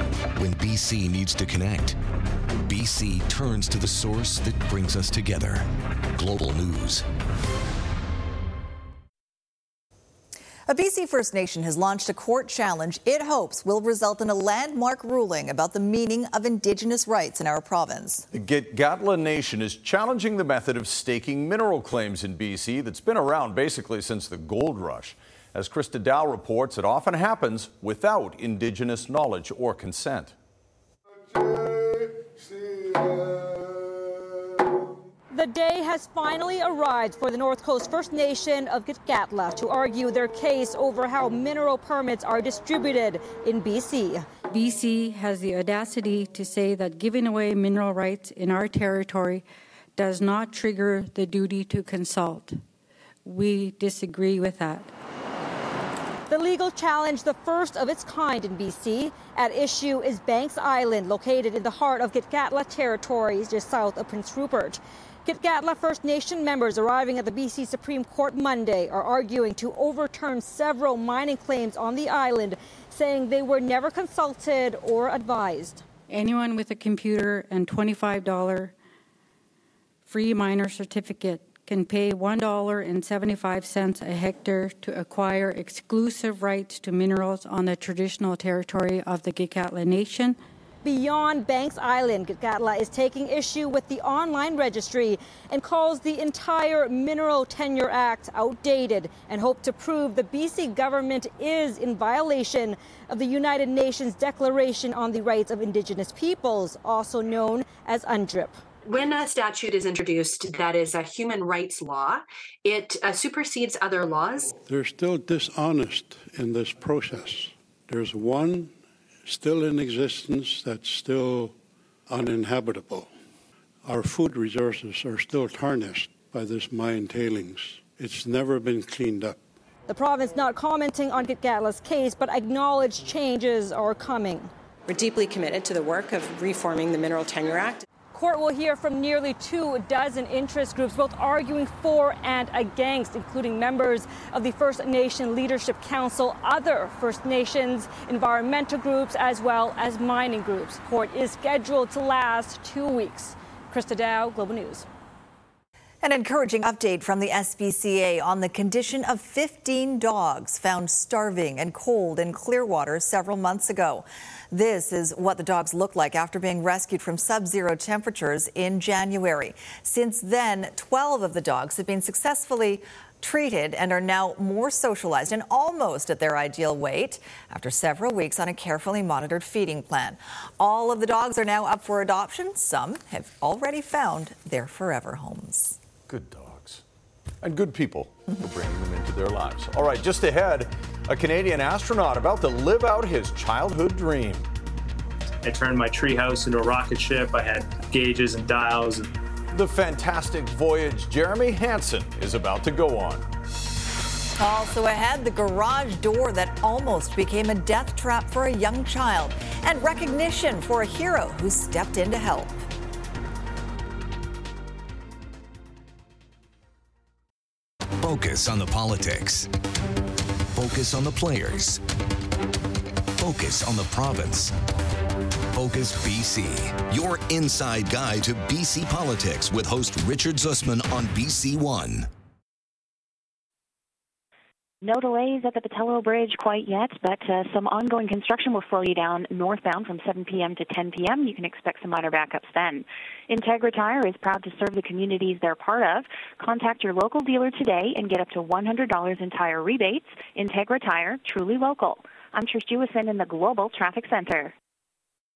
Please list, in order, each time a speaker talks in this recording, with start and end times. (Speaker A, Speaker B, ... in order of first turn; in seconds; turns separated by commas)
Speaker A: 0.4-2.0, Speaker A: 2.6-7.0, Speaker B: 10.7-18.3, Speaker C: 18.3-30.3, Speaker D: 35.3-44.3, Speaker E: 44.5-49.4, Speaker E: 50.0-52.6, Speaker E: 53.2-54.9, Speaker D: 56.3-75.8, Speaker E: 76.1-78.8, Speaker E: 80.1-90.4, Speaker D: 90.8-108.6, Speaker F: 108.9-114.5, Speaker G: 114.6-118.7, Speaker G: 119.3-121.5, Speaker G: 122.1-123.1, Speaker G: 123.8-129.4, Speaker D: 129.9-134.5, Speaker H: 134.9-137.8, Speaker D: 138.1-154.9, Speaker B: 156.0-185.8, Speaker C: 186.1-186.8, Speaker C: 187.4-194.5, Speaker I: 195.4-199.1, Speaker C: 199.5-203.2, Speaker B: 204.4-212.6, Speaker A: 218.0-219.5, Speaker A: 220.5-221.8, Speaker A: 223.2-224.6, Speaker A: 225.5-232.1, Speaker J: 234.8-254.5